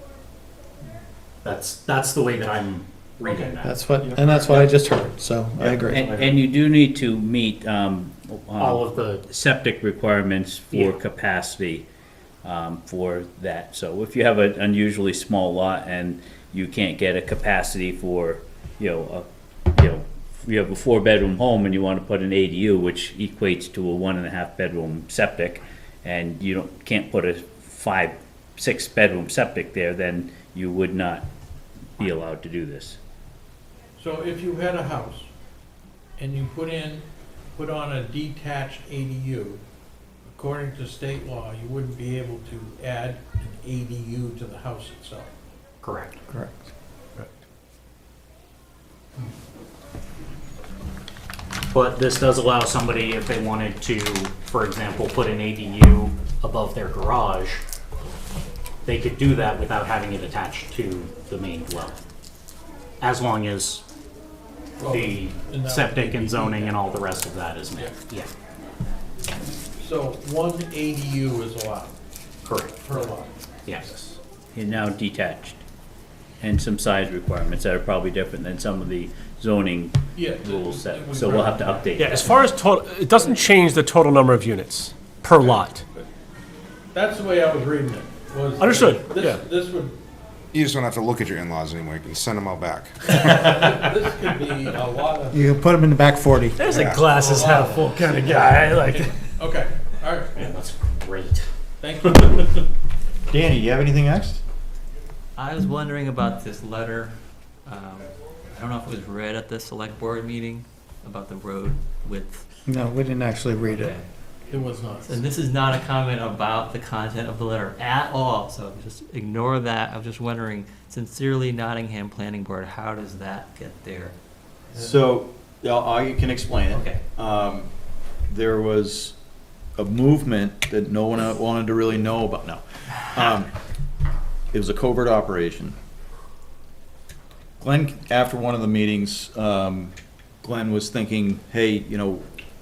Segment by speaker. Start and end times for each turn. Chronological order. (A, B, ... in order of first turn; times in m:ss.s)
0:01.4-0:03.8 A
0:03.2-0:03.5 B
0:03.6-0:06.1 C
0:04.0-0:04.7 D
0:05.6-0:06.4 D
0:05.9-0:11.8 E
0:08.6-0:09.2 A
0:12.4-0:31.3 E
0:32.0-0:33.0 E
0:34.0-0:35.3 B
0:36.2-0:37.0 B
0:37.6-0:39.6 B
0:40.3-0:45.3 B
0:45.8-0:46.2 A
0:46.3-0:46.7 C
0:51.7-0:57.6 A
0:58.8-1:02.0 A
1:03.0-1:03.8 A
1:04.8-1:06.8 B
1:04.8-1:08.3 A
1:09.8-1:11.9 B
1:12.4-1:13.1 A
1:12.8-1:13.4 B
1:13.8-1:14.2 F
1:14.5-1:15.6 E
1:16.4-1:22.2 E
1:20.1-1:22.2 B
1:22.0-1:25.8 F
1:26.9-1:30.0 B
1:28.6-1:29.4 F
1:30.5-1:33.4 G
1:33.3-1:35.4 B
1:35.3-1:37.0 C
1:36.6-1:39.3 F
1:36.7-1:40.3 B
1:40.3-1:41.5 A
1:41.8-1:42.6 B
1:43.3-1:44.4 D
1:45.4-1:52.5 H
1:52.7-1:53.9 C
1:53.6-1:54.1 H
1:54.5-1:55.2 B
1:55.0-2:04.2 H
2:04.7-2:07.7 D
2:06.7-2:07.0 H
2:08.3-2:09.2 D
2:09.8-2:13.5 D
2:14.5-2:15.8 D
2:17.6-2:22.3 D